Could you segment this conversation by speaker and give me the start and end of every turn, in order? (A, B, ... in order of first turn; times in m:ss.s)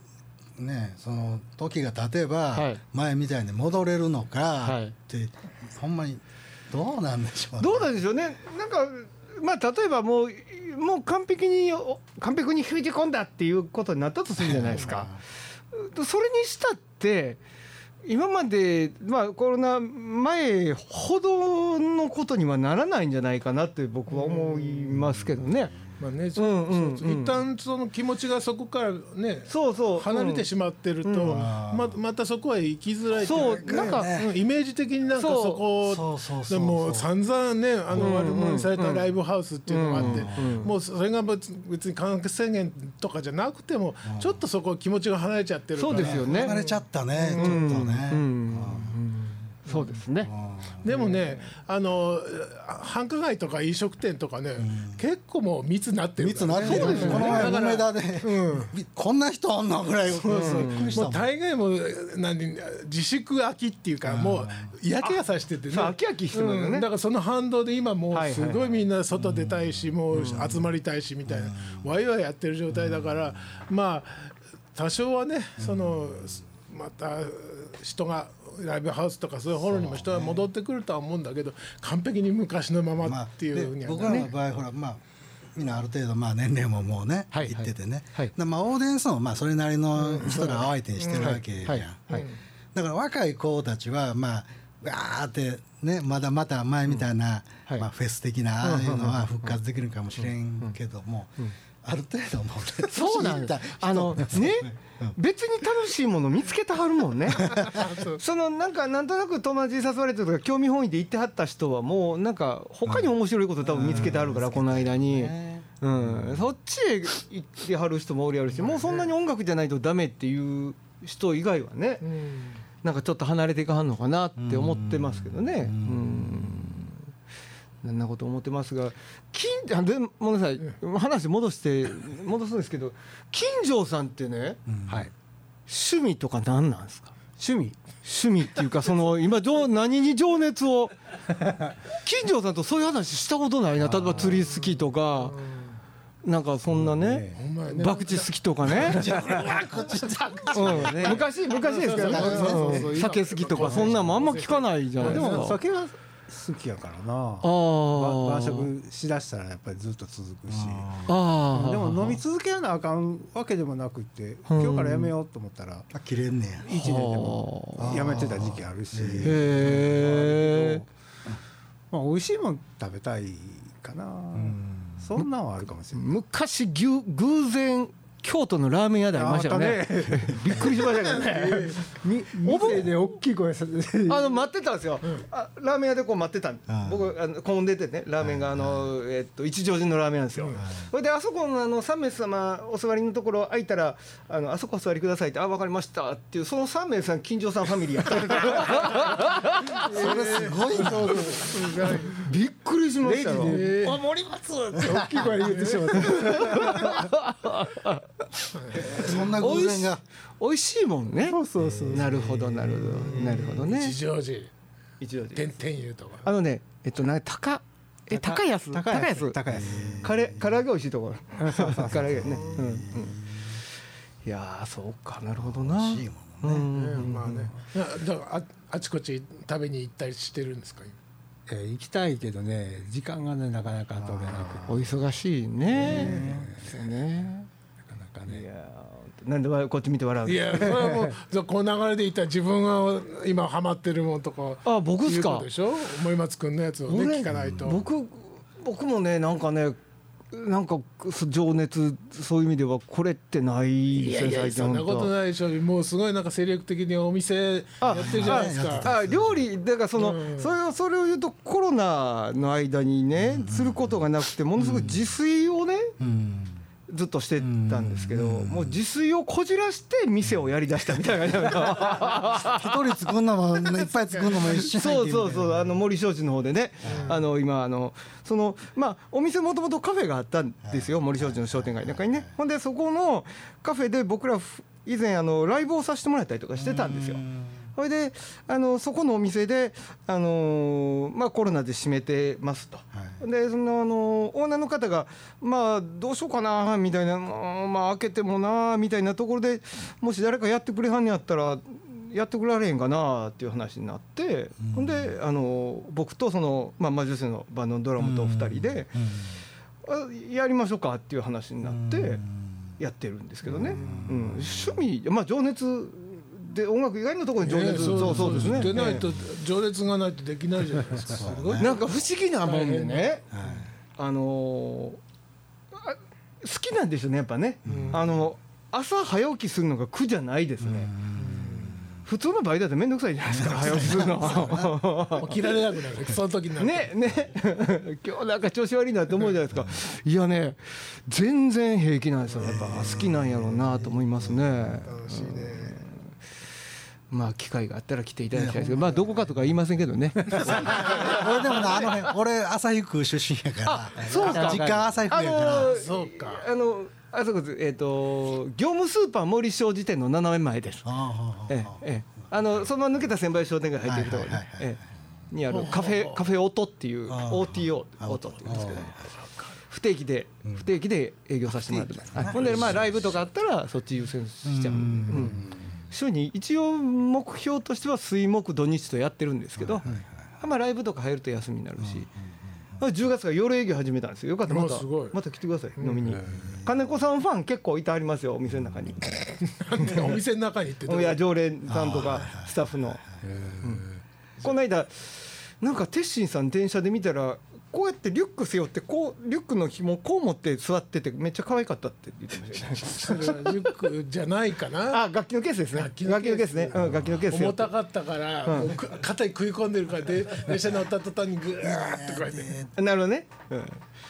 0:00.6-0:08.0 A
0:02.5-0:02.8 B
0:04.6-0:05.0 B
0:07.6-0:15.1 B
0:14.4-0:15.2 A
0:15.7-0:17.4 B
0:18.0-0:25.8 B
0:24.1-0:24.9 C
0:25.0-0:25.8 A
0:26.0-0:47.8 C
0:26.4-0:27.4 B
0:29.5-0:30.5 B
0:31.0-0:31.3 B
0:31.2-0:32.0 A
0:33.2-0:34.2 B
0:33.2-0:34.3 A
0:35.2-0:35.6 B
0:35.8-0:37.1 A
0:38.0-0:39.1 B
0:39.7-0:40.7 B
0:39.9-0:40.7 A
0:44.1-0:44.4 A
0:45.8-0:46.6 B
0:45.9-0:49.0 A
0:47.4-0:50.3 B
0:50.2-0:50.9 A
0:50.8-0:58.7 C
0:50.9-0:51.4 B
0:54.6-0:55.0 A
0:56.2-1:01.2 A
0:56.6-0:57.6 B
1:00.2-1:24.3 C
1:00.3-1:01.1 B
1:04.0-1:04.7 A
1:05.7-1:06.9 B
1:08.1-1:08.8 B
1:09.1-1:10.6 A
1:10.1-1:10.5 B
1:11.3-1:11.9 A
1:12.7-1:13.2 A
1:15.6-1:16.2 A
1:19.6-1:20.5 A
1:23.0-1:25.0 A
1:25.5-1:45.2 A
1:27.3-1:28.3 B
1:30.0-1:31.4 C
1:31.2-1:32.3 B
1:38.6-1:39.5 B
1:42.9-2:02.0 B
1:47.5-1:47.8 A
1:47.5-1:48.2 C
1:53.6-1:56.5 A
1:58.6-1:59.1 C
2:02.0-2:02.6 C
2:02.8-2:07.1 B
2:04.4-2:06.8 A
2:07.8-2:14.6 B
2:14.7-2:15.1 A
2:15.7-2:17.2 B
2:17.4-2:17.8 D
2:18.0-2:21.0 B
2:21.4-2:21.8 D
2:22.0-2:25.4 B
2:25.2-2:25.8 C
2:26.2-2:29.1 B
2:26.7-2:27.4 D
2:27.4-2:35.6 C
2:28.8-2:31.1 A
2:30.5-2:35.6 B
2:30.6-2:31.2 D
2:32.0-2:32.9 A
2:33.7-2:34.0 D
2:35.0-2:45.9 D
2:37.4-2:38.7 B
2:40.5-2:41.1 A
2:41.1-2:42.2 B
2:44.5-2:45.2 B
2:45.9-2:46.7 A
2:46.6-2:50.9 D
2:46.7-2:48.2 B
2:47.8-2:49.8 A
2:49.2-2:50.8 B
2:51.9-2:56.2 D
2:54.4-2:55.0 A
2:55.9-3:03.0 B
2:59.1-3:04.5 D
3:04.1-3:19.9 B
3:06.7-3:07.1 A
3:08.2-3:08.9 A
3:10.6-3:10.9 A
3:19.9-3:21.4 A
3:19.9-3:22.0 D
3:19.9-3:22.2 C
3:22.1-3:23.6 B
3:23.0-3:27.1 D
3:23.5-3:24.0 C
3:25.4-3:25.8 C
3:25.6-3:28.1 B
3:28.7-3:34.0 B
3:28.8-3:30.0 A
3:31.2-3:32.5 D
3:31.6-3:33.5 A
3:33.0-3:34.5 C
3:35.0-3:35.5 B
3:35.4-3:36.3 C
3:36.2-3:43.2 B
3:38.1-3:40.0 D
3:39.5-3:40.5 A
3:41.4-3:42.5 D
3:41.9-3:43.6 A
3:44.2-3:47.5 B
3:45.4-3:46.7 A
3:46.6-3:51.0 C
3:51.5-3:54.9 D
3:54.0-3:54.8 A
3:54.7-3:57.5 B
3:55.8-3:56.5 A
3:55.8-3:56.2 C
3:55.9-3:56.7 D
3:57.9-3:58.5 D
3:58.3-4:00.8 B
4:00.2-4:07.8 C
4:04.6-4:05.5 B
4:06.9-4:09.8 B
4:10.3-4:15.1 B
4:13.9-4:18.9 C
4:17.8-4:25.9 B
4:17.9-4:19.4 A
4:20.0-4:20.6 C
4:23.2-4:24.0 A
4:24.6-4:25.1 A
4:26.0-4:26.6 A
4:26.9-4:32.8 B
4:27.4-4:28.8 A
4:32.2-4:35.7 A
4:34.5-4:47.2 B
4:36.8-4:37.2 A
4:36.9-4:37.2 C
4:40.6-4:42.3 A
4:46.6-4:47.6 A
4:47.8-5:08.9 B
4:52.9-4:53.2 A
5:04.6-5:05.2 A
5:08.0-5:09.4 A
5:09.8-5:12.2 B
5:11.6-5:12.7 A
5:12.8-5:19.0 B
5:13.4-5:14.8 A
5:13.6-5:14.1 C
5:17.4-5:23.5 C
5:17.7-5:19.2 A
5:21.1-5:21.8 A
5:21.6-5:23.3 B
5:23.3-5:23.7 A
5:24.0-5:25.0 B
5:25.7-5:30.9 B
5:27.6-5:28.2 A
5:27.7-5:28.0 C
5:30.6-5:32.0 A
5:31.2-5:31.8 C
5:32.0-5:35.5 B
5:33.4-5:34.7 A
5:33.4-5:36.9 C
5:36.6-5:46.1 B
5:42.4-5:44.8 A
5:44.9-5:45.8 C
5:47.1-5:52.0 B
5:48.3-5:49.6 A
5:50.3-5:55.8 A
5:50.7-5:51.1 C
5:53.6-6:00.9 B
5:54.1-5:55.0 D
5:55.4-5:56.5 C
6:00.8-6:02.7 A
6:01.5-6:08.9 B
6:03.8-6:04.8 A
6:05.5-6:06.2 C
6:07.1-6:08.9 A
6:08.5-6:08.8 D
6:09.0-6:09.5 C
6:09.7-6:22.1 B
6:11.5-6:13.2 A
6:14.4-6:15.7 A
6:19.6-6:20.2 A
6:21.8-6:22.1 A
6:22.8-6:29.2 B
6:24.5-6:25.2 C
6:25.8-6:26.2 C
6:26.2-6:26.5 D
6:26.3-6:26.7 A
6:28.6-6:29.0 A
6:29.4-6:31.2 C
6:30.9-6:33.0 B
6:31.7-6:32.6 A
6:33.2-6:33.8 D
6:33.6-6:33.9 B
6:34.4-6:43.4 B
6:42.8-6:45.0 C
6:44.9-6:47.7 B
6:45.7-6:52.6 C
6:48.5-6:48.7 B
6:51.6-6:52.7 A
6:52.8-6:53.8 B